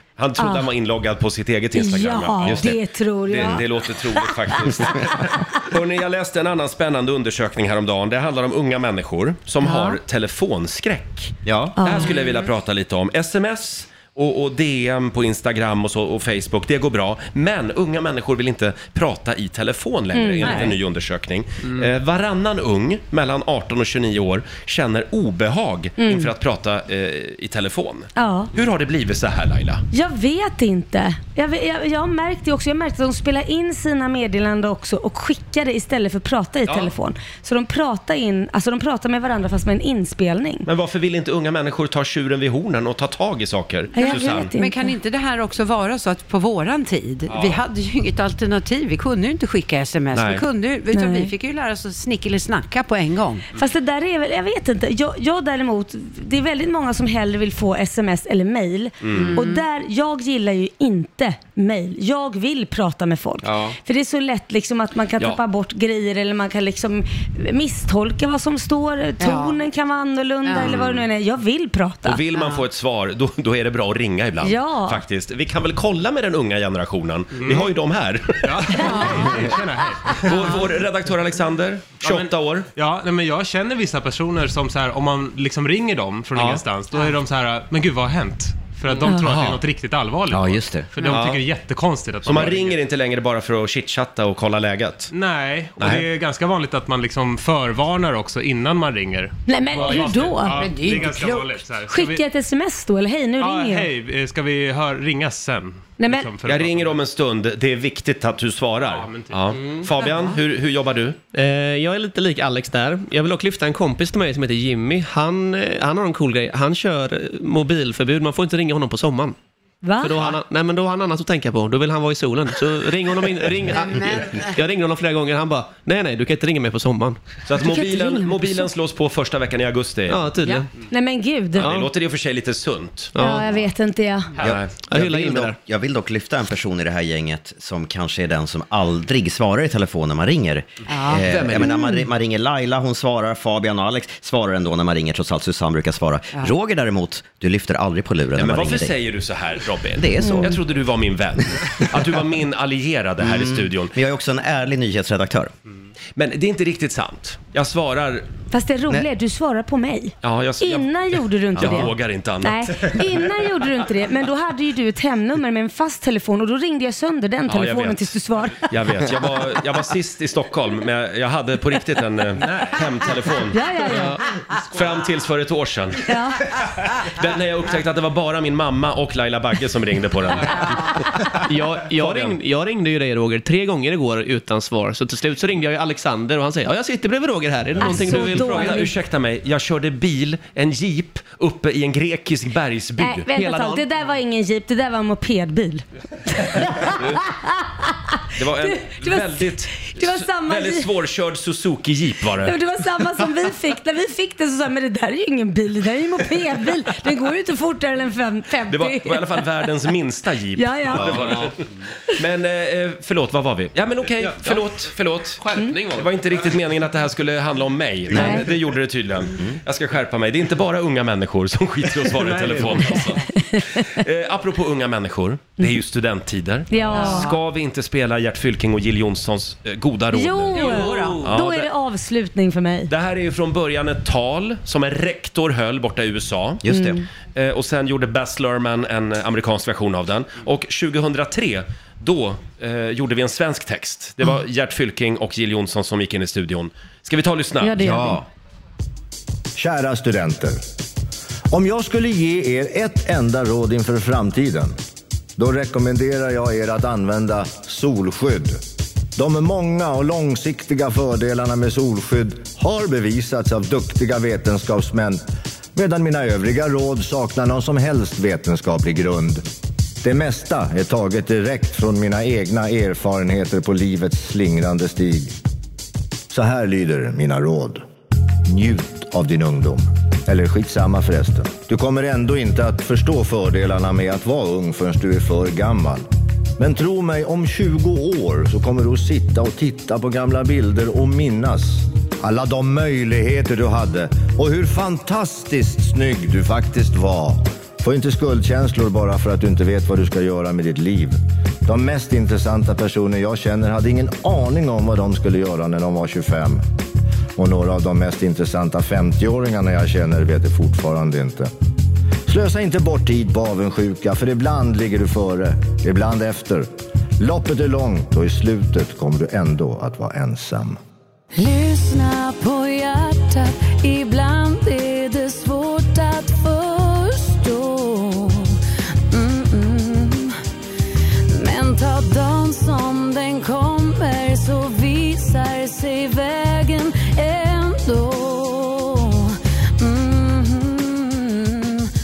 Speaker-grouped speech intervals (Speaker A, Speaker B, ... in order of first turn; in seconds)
Speaker A: 0.2-29.8, 40.7-44.5, 47.3-47.6, 50.1-50.4, 59.0-59.4, 70.7-71.0, 72.0-79.3, 80.2-82.7, 86.3-86.6, 89.0-89.6, 91.1-91.4, 92.2-95.1, 95.8-96.0, 106.5-111.2, 127.5-130.2, 131.6-133.1, 134.4-134.8, 141.2-141.8, 148.3-153.9, 156.2-158.3, 160.2-160.9, 161.6-163.1, 167.5-174.1, 174.7-176.1, 177.0-181.1, 182.0-182.4, 187.8-193.3, 196.9-197.2, 198.4-202.6, 208.7-211.5, 212.2-231.7, 232.9-236.7, 237.3-248.0
Speaker B: 0.4-0.7, 1.8-3.6, 9.6-10.0, 11.8-12.2, 20.1-20.7, 26.0-26.3, 28.2-28.5, 29.9-40.7, 44.0-44.9, 50.9-51.3, 53.5-72.2, 74.4-75.0, 78.8-79.0, 99.5-100.7, 101.9-103.9, 106.0-106.3, 119.8-120.2, 127.6-128.7, 130.8-131.7, 133.2-134.3, 150.2-150.5, 158.5-168.7, 173.5-174.2, 176.1-176.4, 187.8-188.9, 193.0-200.9, 202.4-209.4, 210.6-211.2, 218.1-218.4, 226.7-227.3, 230.1-232.9, 236.7-237.0, 247.6-248.2, 329.4-329.9
Speaker C: 11.4-11.8, 63.4-63.8, 90.3-91.0, 134.4-149.0, 149.9-150.6, 153.2-155.5, 211.1-211.3, 218.1-218.4, 236.6-237.0, 247.8-248.2
Speaker D: 44.0-53.4, 59.1-59.6, 69.2-69.6, 70.5-70.8, 72.3-72.6, 100.5-101.5, 123.7-124.5, 140.9-141.2, 226.9-227.4, 230.8-231.3
Speaker E: 77.3-77.7, 78.4-80.7, 82.0-92.8, 95.1-102.2, 103.4-107.0, 108.8-109.8, 172.5-172.8, 222.3-223.1
Speaker F: 111.3-119.4, 120.0-127.2, 130.1-130.7, 131.6-131.9, 133.1-133.5, 134.9-135.6, 173.9-174.2, 181.4-188.8, 193.3-193.8
Speaker G: 249.6-250.6, 251.5-254.8, 255.4-258.6, 259.2-265.2, 265.8-269.4, 270.0-275.3, 276.3-277.8, 278.5-286.1, 286.6-306.6, 307.4-311.5, 312.3-320.8
Speaker H: 321.5-328.2, 331.4-338.6, 339.8-340.1